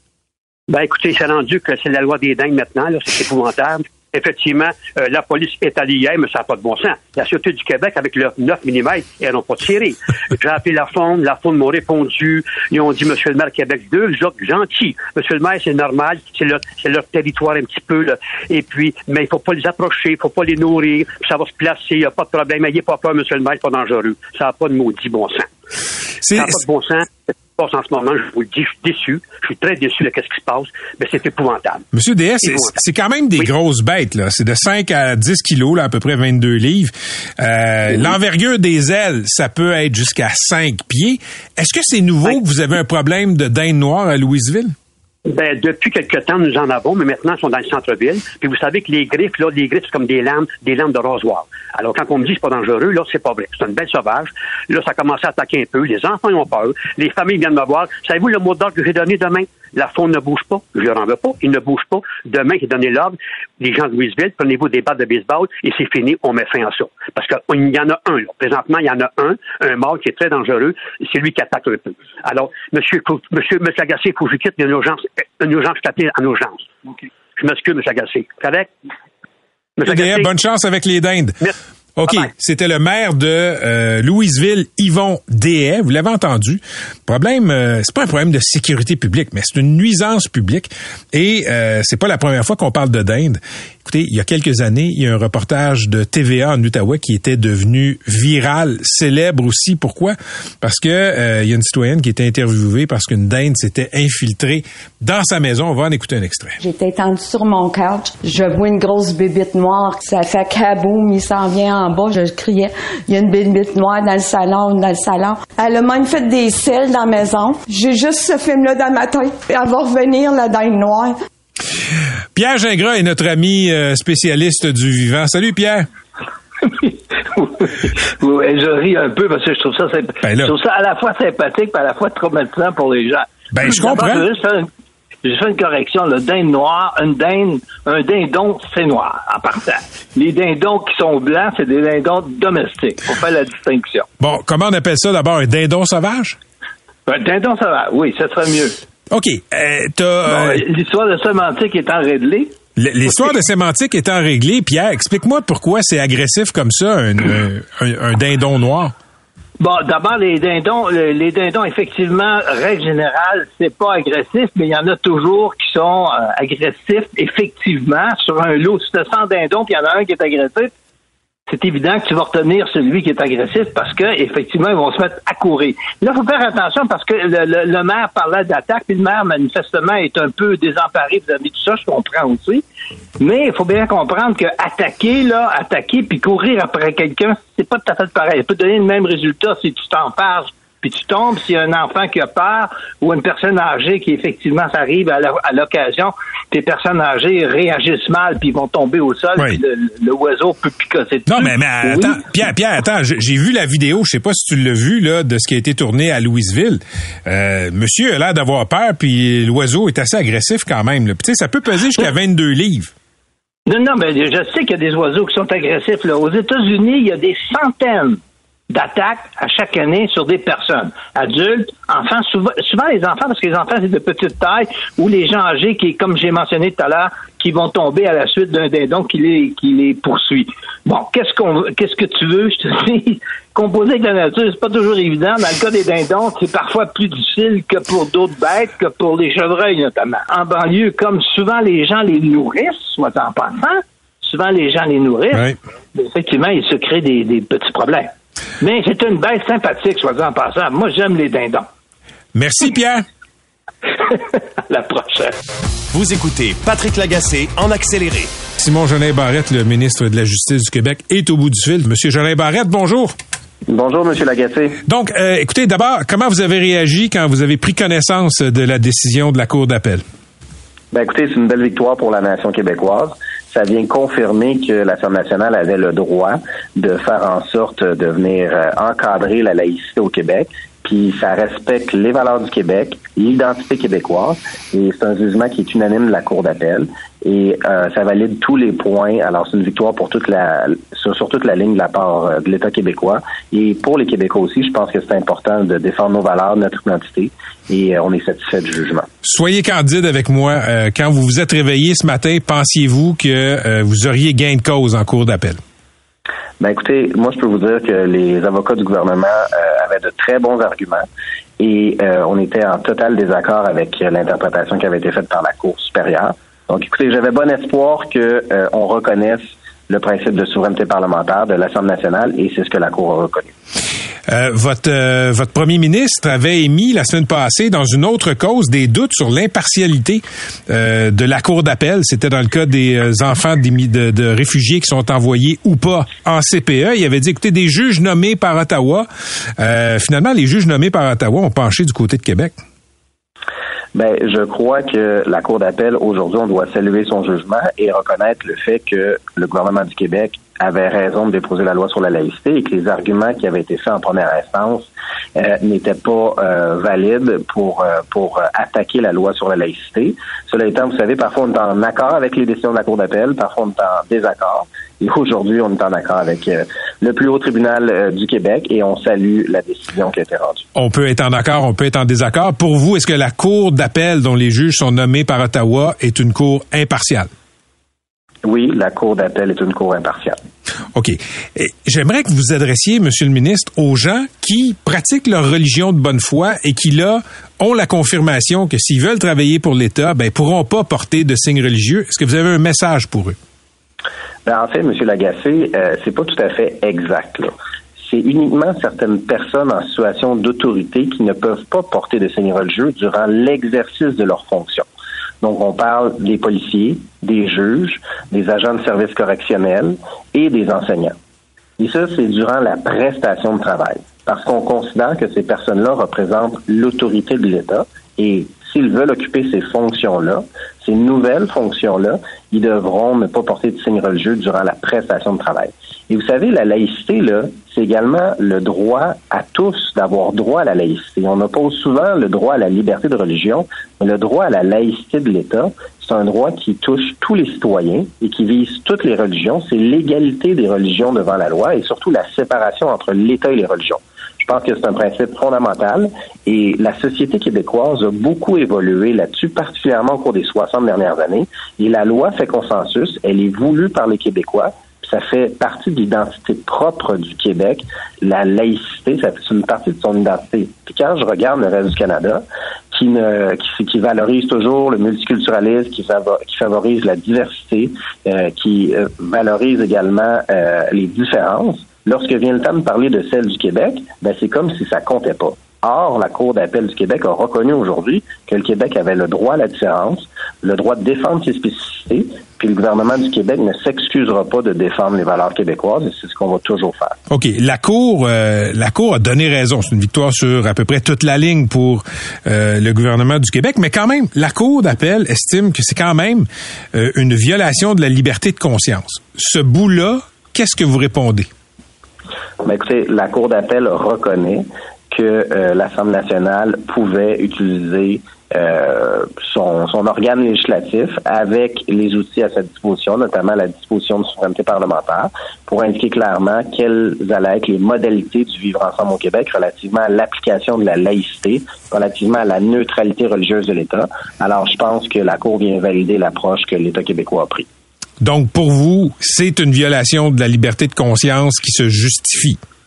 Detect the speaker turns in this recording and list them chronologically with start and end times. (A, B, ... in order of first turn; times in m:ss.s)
0:00.7-0:25.5 A
0:26.2-0:26.6 B
0:26.3-0:31.8 A
0:31.9-0:44.7 B
0:32.4-0:32.7 A
0:45.3-1:16.7 A
1:17.4-1:18.7 A
1:19.8-1:20.3 A
1:19.8-1:21.4 B
1:22.0-1:46.6 B
1:46.6-2:01.2 C
2:02.4-2:05.9 B
2:06.7-2:14.7 D
2:10.2-2:10.5 B
2:13.5-2:14.3 B
2:15.2-2:24.1 D
2:24.2-2:26.4 B
2:27.1-2:28.8 D
2:29.1-2:30.6 B
2:30.3-2:32.5 D
2:32.8-2:38.9 B
2:39.6-2:50.7 D
2:51.5-3:02.6 D
3:03.2-3:22.3 D
3:21.3-3:32.9 B
3:33.7-4:11.7 D
4:12.4-4:13.0 B
4:14.0-4:15.3 D
4:15.9-4:18.3 E
4:18.6-4:23.2 B
4:23.7-4:24.8 F
4:24.8-4:30.0 B
4:30.9-4:59.1 F
4:59.2-5:05.6 B
5:06.6-5:11.1 F
5:11.6-5:23.6 F
5:24.3-5:39.1 B
5:39.6-5:42.6 B
5:43.9-6:10.7 F
6:10.8-6:17.3 B
6:18.4-6:20.4 F
6:20.9-6:33.4 B
6:34.5-6:44.9 F
6:45.4-6:51.2 F
6:51.8-8:07.2 F
8:07.3-8:21.5 B
8:22.6-8:47.7 F
8:48.2-8:52.6 B